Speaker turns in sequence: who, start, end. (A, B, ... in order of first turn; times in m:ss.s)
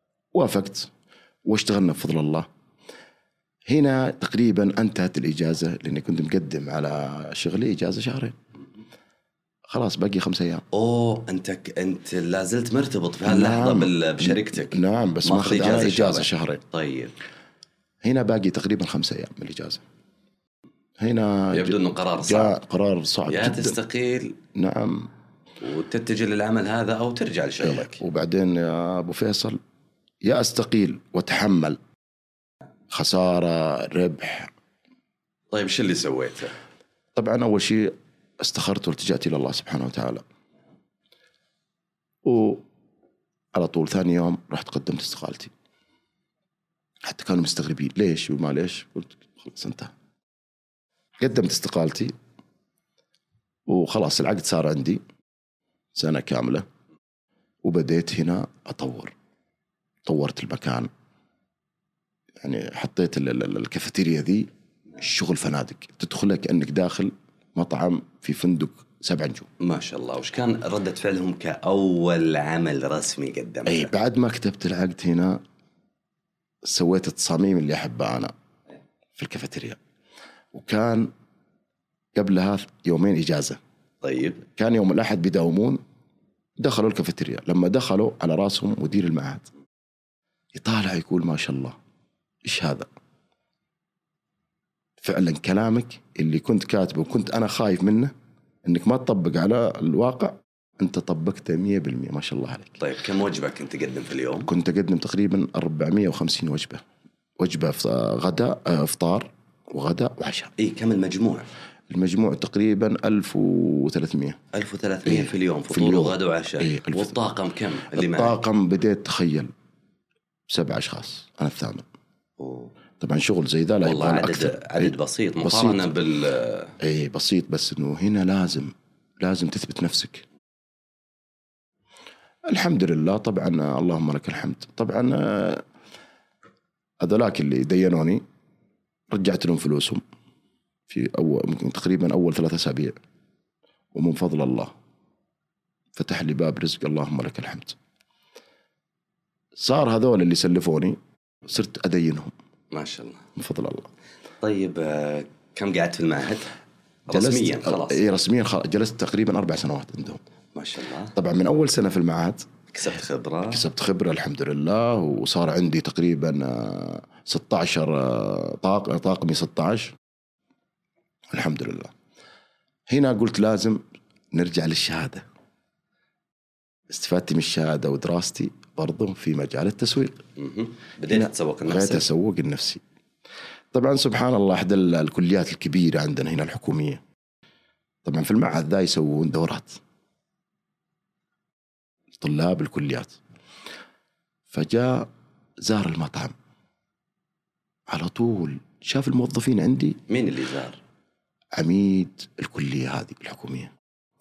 0:00.3-0:00.9 A
0:01.4-0:02.5 A
0:03.7-0:08.4 A
0:09.7-0:10.6 A
0:10.7-0:17.1 B
0:13.2-0:16.6 A
0:18.0-0:19.8 A
0:21.0-0:23.8 A
0:21.5-0:22.6 B
0:23.3-0:24.4 B
0:24.5-0:25.1 A
0:25.6-0:28.0 B
0:27.6-0:29.6 A
0:30.2-0:31.8 A
0:32.9-0:34.5 A
0:35.5-0:36.5 B
0:37.2-0:40.2 A
0:42.2-0:42.6 A
0:43.6-0:45.5 A
0:47.0-0:49.9 A
0:51.2-0:52.1 A
0:53.7-0:55.0 A
0:55.9-0:56.6 A
0:57.6-0:59.1 A
1:00.1-1:00.9 A
1:02.4-1:09.5 A
1:09.6-1:13.9 B
1:13.7-1:15.4 A
1:16.6-1:18.3 A
1:19.2-1:19.8 A
1:20.5-1:21.1 A
1:22.2-1:23.6 A
1:24.0-1:24.4 B
1:24.5-1:25.8 A
1:26.6-1:29.5 A
1:30.5-1:31.8 A
1:32.4-1:32.9 A
1:35.0-1:38.1 A
1:38.6-1:42.8 A
1:42.8-1:44.5 B
1:44.5-1:46.8 A
1:47.4-1:50.5 A
1:50.6-1:51.5 B
1:51.9-1:54.4 A
1:54.5-1:58.4 B
1:55.1-1:57.1 A
1:57.9-1:59.5 A
2:00.5-2:01.8 A
2:02.4-2:02.7 B
2:03.0-2:05.9 A
2:03.8-2:06.8 B
2:06.8-2:10.2 A
2:12.5-2:15.6 A
2:17.0-2:18.2 A
2:19.1-2:20.0 A
2:20.9-2:23.0 A
2:23.9-2:24.7 A
2:26.0-2:27.8 A
2:29.6-2:32.3 A
2:32.7-2:33.3 B
2:33.4-2:33.9 A
2:34.4-2:36.5 B
2:37.1-2:38.0 B
2:37.1-2:40.2 A
2:40.6-2:41.2 B
2:41.2-2:42.5 A
2:42.7-2:43.7 B
2:43.5-2:50.0 A
2:51.3-2:51.9 A
2:52.9-2:55.2 A
2:56.9-3:00.2 A
3:00.4-3:02.1 B
3:01.1-3:02.8 A
3:03.7-3:07.0 A
3:08.0-3:09.8 A
3:12.2-3:13.2 A
3:14.5-3:15.1 A
3:15.6-3:16.4 A
3:17.9-3:20.0 A
3:20.1-3:20.8 B
3:21.6-3:23.7 A